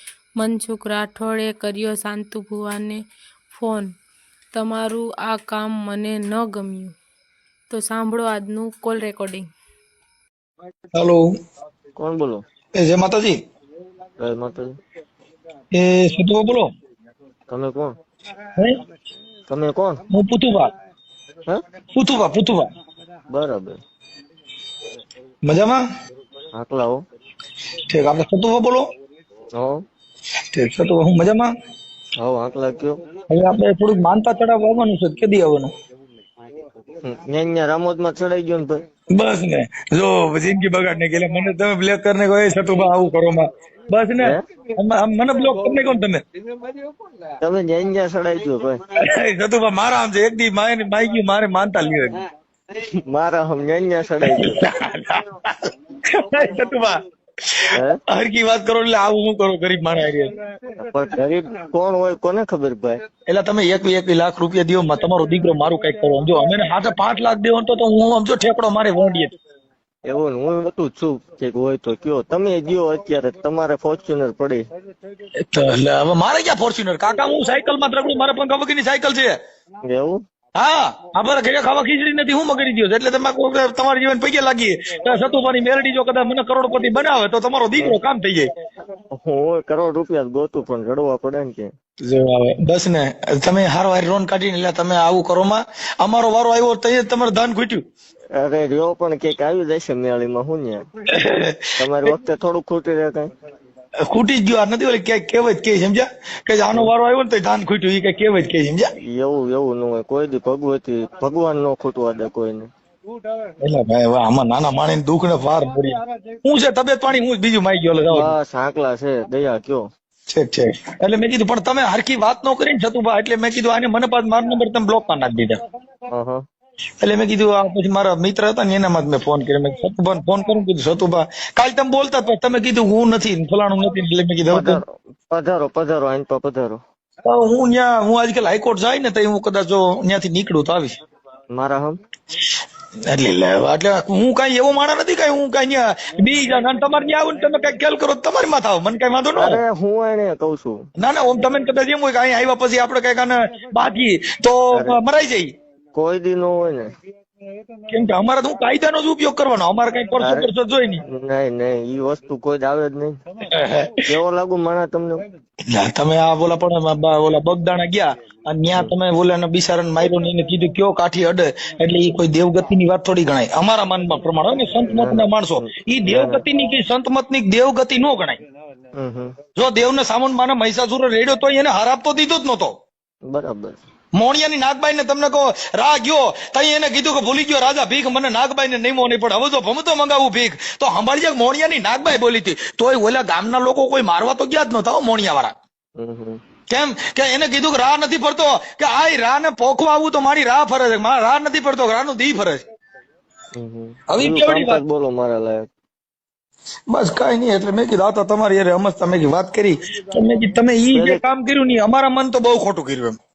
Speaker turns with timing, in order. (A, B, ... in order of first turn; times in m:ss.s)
0:00.4-0:03.0 A
0:03.5-0:03.9 A
0:04.5-0:06.9 A
0:07.7-0:09.5 A
0:10.9-0:11.3 B
0:12.0-0:12.4 C
0:12.7-0:13.4 B
0:14.2-0:14.8 C
0:15.7-0:16.7 B
0:17.5-0:17.9 C
0:19.5-0:20.0 C
0:20.1-0:20.7 B
0:21.9-0:22.7 B
0:23.3-0:23.8 C
0:25.4-0:25.8 B
0:26.5-0:27.0 C
0:27.9-0:28.9 B
0:29.6-0:29.8 C
0:30.5-0:31.5 B
0:32.2-0:33.0 C
0:33.3-0:35.7 B
0:37.0-0:38.8 C
0:39.1-0:46.2 B
0:47.4-0:48.8 C
0:49.0-0:52.2 B
0:53.0-0:54.7 C
0:54.2-1:00.3 B
0:57.7-0:58.0 C
1:00.8-1:03.0 C
1:03.3-1:09.3 B
1:10.0-1:14.6 C
1:15.4-1:19.4 B
1:19.8-1:20.2 C
1:20.6-1:28.5 B
1:29.1-1:31.7 C
1:32.0-1:37.8 B
1:38.3-1:40.8 C
1:41.1-1:42.1 B
1:41.8-1:43.3 C
1:44.0-1:48.9 B
1:49.0-1:52.7 C
1:53.6-1:58.3 B
1:58.1-1:59.9 C
2:00.3-2:05.6 B
2:06.1-2:06.4 C
2:07.0-2:14.8 B
2:14.5-2:16.8 C
2:17.2-2:21.0 B
2:21.5-2:22.0 C
2:23.1-2:29.6 B
2:29.3-2:30.9 C
2:31.0-2:35.5 B
2:34.7-2:35.0 C
2:35.9-2:36.9 C
2:37.9-2:41.0 B
2:40.2-2:40.5 C
2:41.1-2:43.2 C
2:43.4-2:44.1 B
2:44.1-2:45.2 C
2:45.7-2:58.4 B
2:54.8-2:56.4 C
2:58.9-2:59.4 C
2:59.6-3:02.7 B
3:03.3-3:03.8 C
3:04.2-3:15.5 B
3:16.0-3:16.4 C
3:16.7-3:22.6 B
3:23.5-3:25.6 C
3:24.1-3:24.8 B
3:26.9-3:33.2 B
3:30.9-3:31.2 C